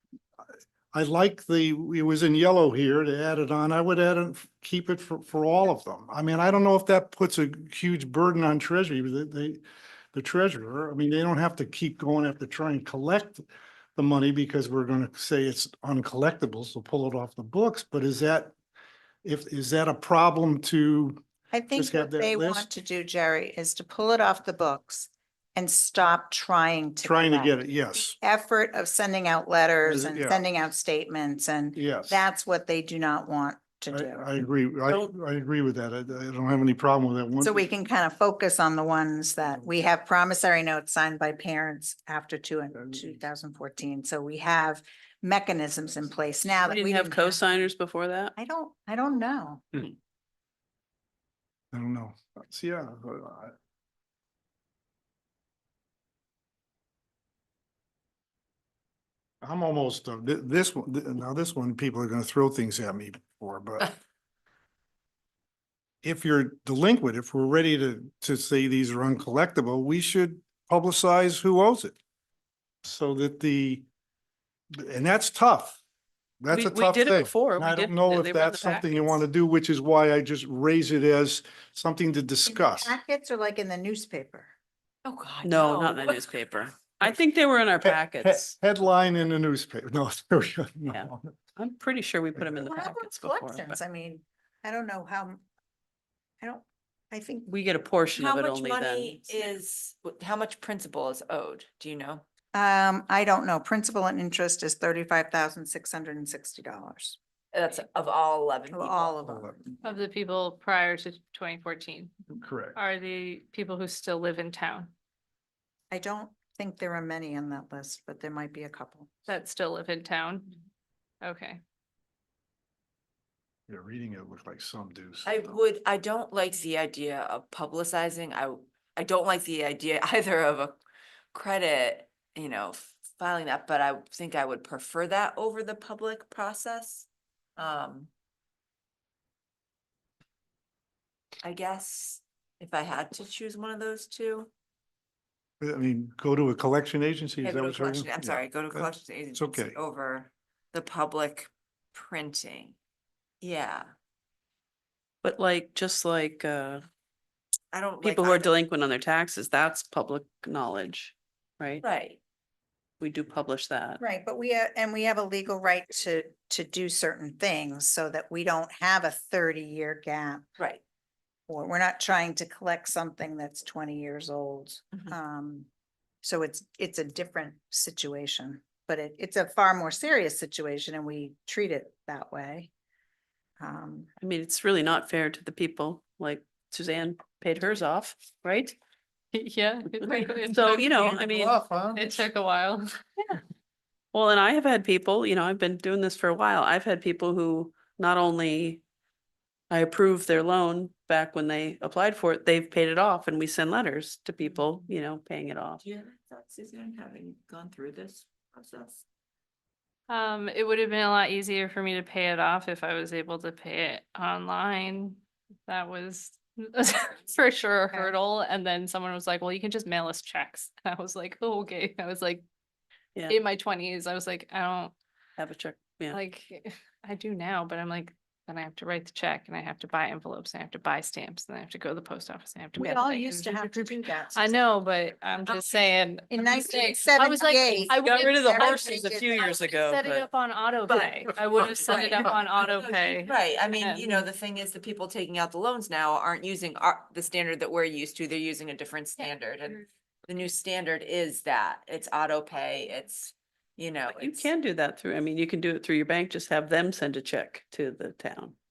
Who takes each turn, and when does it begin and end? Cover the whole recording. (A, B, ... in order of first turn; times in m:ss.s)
0:00.9-0:09.6 A
0:10.1-0:13.4 A
0:14.0-0:18.5 A
0:19.2-0:22.7 A
0:21.5-0:27.6 B
0:27.0-0:28.2 A
0:28.2-0:34.2 B
0:29.8-0:30.4 A
0:31.8-0:32.2 A
0:33.9-0:37.6 A
0:37.4-0:47.7 B
0:46.6-0:48.3 C
0:48.4-0:49.6 B
0:51.7-0:53.5 A
0:59.4-1:03.9 A
1:06.0-1:12.0 A
1:12.8-1:13.8 A
1:14.7-1:15.8 A
1:16.4-1:22.9 A
1:16.5-1:19.2 C
1:22.4-1:24.5 B
1:25.0-1:26.3 D
1:25.4-1:28.6 C
1:27.8-1:31.3 A
1:30.9-1:33.8 C
1:32.6-1:35.4 B
1:36.4-1:37.5 B
1:37.5-1:39.2 C
1:38.1-1:42.2 D
1:42.5-1:47.2 B
1:47.5-1:49.2 D
1:48.7-1:49.6 B
1:49.3-1:49.6 A
1:49.8-1:52.1 E
1:52.3-1:52.8 A
1:52.7-1:54.9 E
1:55.9-1:59.1 B
1:59.3-2:00.6 E
2:01.2-2:01.6 E
2:03.7-2:05.6 A
2:05.2-2:10.8 D
2:11.3-2:18.1 D
2:21.4-2:24.5 D
2:25.6-2:29.8 A
2:27.4-2:32.8 D
2:33.4-2:33.9 D
2:35.2-2:36.8 C
2:37.7-2:38.6 D
2:38.0-2:41.8 C
2:41.8-2:42.2 D
2:43.0-2:44.0 C
2:44.0-2:50.4 B
2:51.5-2:55.7 B
2:56.2-3:02.7 B
3:03.6-3:04.1 B
3:04.2-3:08.7 C
3:09.3-3:11.2 E
3:10.5-3:11.6 C
3:10.9-3:12.2 A
3:11.9-3:13.3 E
3:14.1-3:18.8 C
3:19.7-3:25.8 C
3:24.4-3:24.7 D
3:25.8-3:29.0 D
3:30.1-3:42.4 E
3:43.3-3:44.9 E
3:45.4-3:46.2 C
3:46.1-3:59.0 E
3:52.7-3:54.6 B
3:56.3-3:59.6 B
3:57.9-4:00.2 C
3:59.7-4:04.2 E
4:00.9-4:14.5 D
4:14.1-4:18.6 C